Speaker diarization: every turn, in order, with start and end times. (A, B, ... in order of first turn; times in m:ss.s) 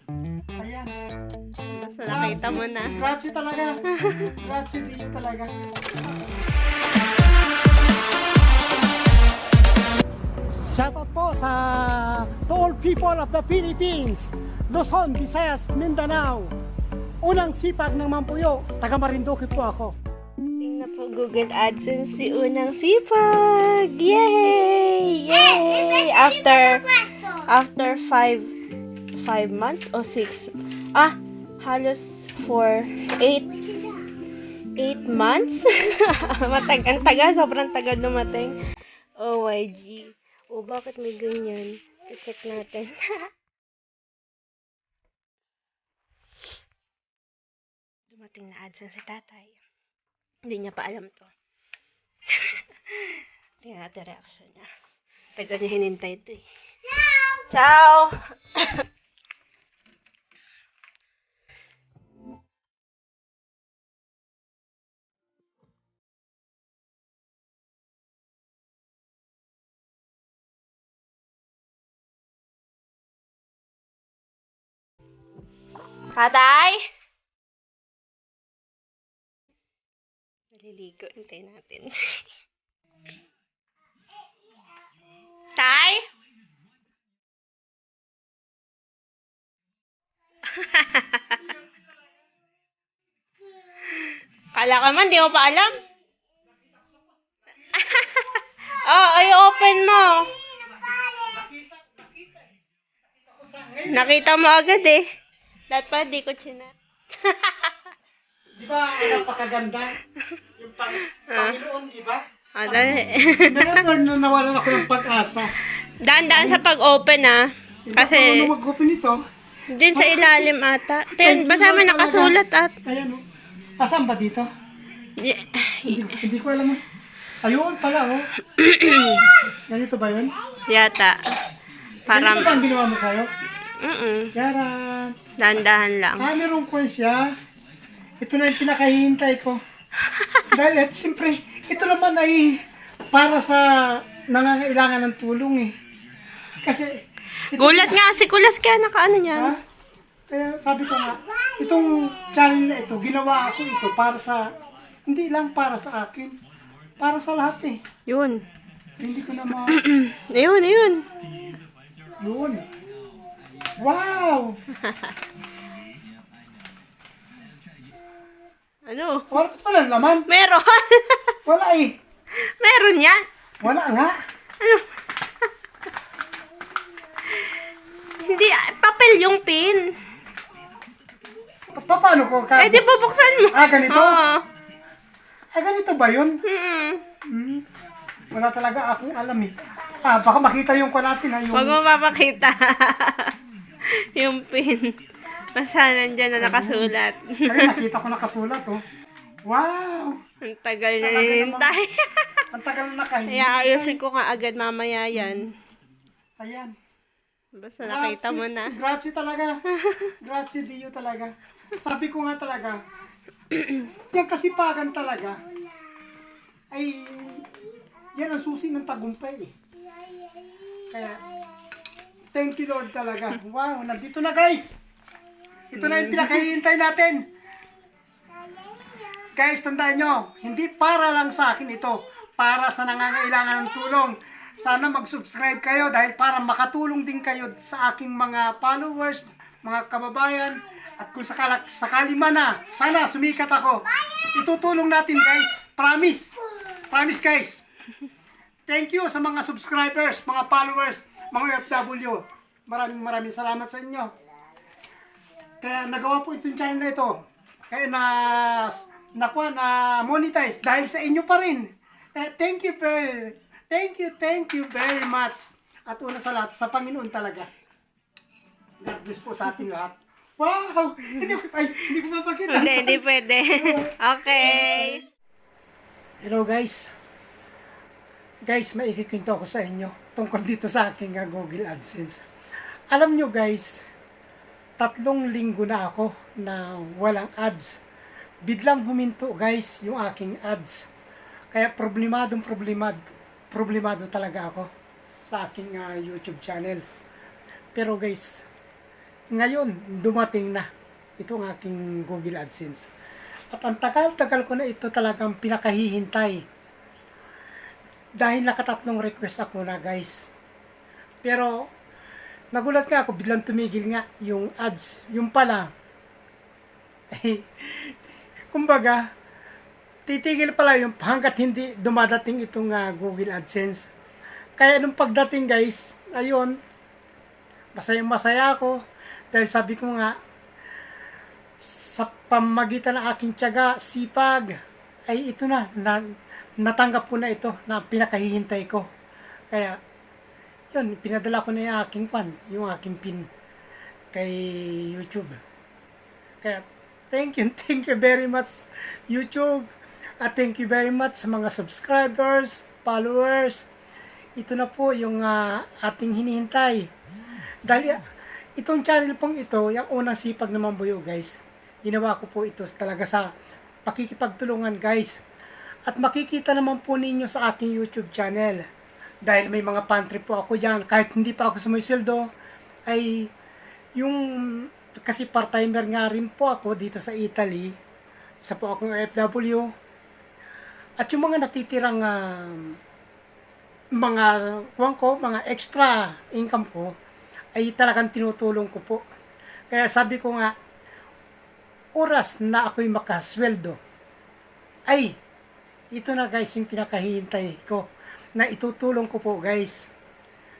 0:00.6-0:00.9 A
0:01.8-0:03.0 B
0:02.1-0:03.8 A
0:04.0-0:04.3 B
0:04.4-0:05.5 A
0:10.6-0:16.5 A
0:17.2-0:20.0 A
0:20.6-0:28.5 B
0:29.1-0:33.9 B
0:34.8-0:38.6 B
0:39.2-0:42.9 B
0:48.1-0:49.6 B
0:50.5-0:51.3 B
0:52.3-0:54.7 B
0:55.4-0:56.5 B
0:57.1-0:58.8 B
1:16.1-1:16.8 B
1:20.5-1:22.2 B
1:25.6-1:26.0 B
1:30.5-1:31.5 B
1:34.5-1:35.7 B
1:37.7-1:40.3 B
1:41.2-1:42.4 A
1:43.2-1:44.3 A
1:43.9-1:45.0 B
1:45.7-1:47.7 B
1:48.6-1:50.0 A
1:50.6-1:55.5 A
1:51.1-1:51.6 B
1:52.6-1:53.8 B
1:56.0-1:58.5 B
1:56.3-1:56.6 A
1:57.9-1:59.2 A
1:59.7-2:02.8 B
1:59.9-2:00.5 A
2:01.1-2:03.2 A
2:03.8-2:04.5 A
2:05.2-2:06.2 B
2:05.8-2:06.8 A
2:07.4-2:08.3 A
2:08.6-2:09.3 B
2:09.7-2:10.3 A
2:10.7-2:11.2 B
2:12.1-2:12.6 B
2:12.1-2:13.3 A
2:13.8-2:14.3 B
2:14.3-2:15.2 A
2:15.4-2:16.3 B
2:16.2-2:17.3 A
2:18.2-2:19.6 A
2:20.2-2:20.4 B
2:20.5-2:25.7 A
2:26.6-2:28.0 A
2:27.5-2:29.6 B
2:30.3-2:34.5 A
2:35.1-2:36.4 A
2:37.0-2:37.8 A
2:38.1-2:38.4 B
2:39.0-2:39.8 A
2:39.7-2:41.1 B
2:42.2-2:42.6 A
2:43.8-2:44.6 A
2:48.9-2:49.3 B
2:49.3-2:50.3 A
2:50.3-2:51.3 B
2:51.5-2:52.0 A
2:52.4-2:53.2 B
2:53.6-2:54.2 A
2:54.6-2:55.5 B
2:57.3-2:57.6 B
2:58.2-2:59.9 B
3:01.7-3:02.8 A
3:02.6-3:04.4 B
3:03.5-3:04.2 A
3:05.5-3:06.4 A
3:06.5-3:07.0 B
3:07.3-3:07.6 A
3:08.3-3:11.8 A
3:11.5-3:13.4 B
3:13.9-3:15.0 B
3:15.5-3:17.8 B
3:16.4-3:16.9 A
3:17.5-3:18.8 A
3:19.5-3:20.2 A
3:20.4-3:22.4 B
3:21.0-3:21.7 A
3:22.5-3:24.0 A
3:23.3-3:25.5 B
3:26.4-3:26.7 A
3:27.6-3:28.8 B
3:27.8-3:29.5 A
3:29.8-3:30.1 B
3:30.2-3:32.8 A
3:33.9-3:35.4 A
3:36.7-3:37.5 A
3:38.2-3:39.5 A
3:40.9-3:41.2 A
3:42.3-3:44.8 A
3:45.7-3:47.3 A
3:45.8-3:46.4 B
3:49.4-4:06.3 A
4:06.9-4:07.6 A
4:08.7-4:14.1 A
4:15.6-4:27.5 A
4:28.8-4:35.0 A
4:32.5-4:35.0 B
4:36.2-4:36.9 A
4:38.4-4:42.2 A
4:42.9-4:43.8 A
4:44.8-4:47.8 A
4:48.4-4:50.9 A
4:51.5-4:54.7 A
4:55.2-4:56.8 A
4:57.8-4:58.4 A
4:59.3-5:00.7 A
5:01.2-5:02.9 A
5:03.5-5:06.4 A
5:08.2-5:10.3 A
5:11.2-5:11.7 A
5:12.5-5:15.7 A
5:17.1-5:18.0 A
5:18.5-5:19.0 A
5:20.1-5:23.9 A
5:24.6-5:26.6 A
5:27.8-5:28.8 A
5:29.3-5:30.1 A
5:31.6-5:34.6 A
5:35.1-5:36.0 A
5:36.6-5:38.9 A
5:39.5-5:39.8 A
5:40.7-5:43.3 A
5:44.1-5:45.4 A
5:46.4-5:49.7 A
5:50.2-5:53.7 A
5:54.4-5:56.9 A
5:57.6-5:58.0 A
5:58.6-6:03.3 A
6:03.9-6:05.2 A
6:05.9-6:08.7 A
6:09.2-6:12.3 A
6:12.9-6:13.3 A
6:14.0-6:17.8 A
6:18.4-6:19.7 A
6:21.0-6:22.8 A
6:24.0-6:26.9 A
6:27.6-6:29.0 A
6:29.7-6:30.5 A
6:32.0-6:33.8 A
6:34.9-6:35.2 A
6:35.9-6:39.9 A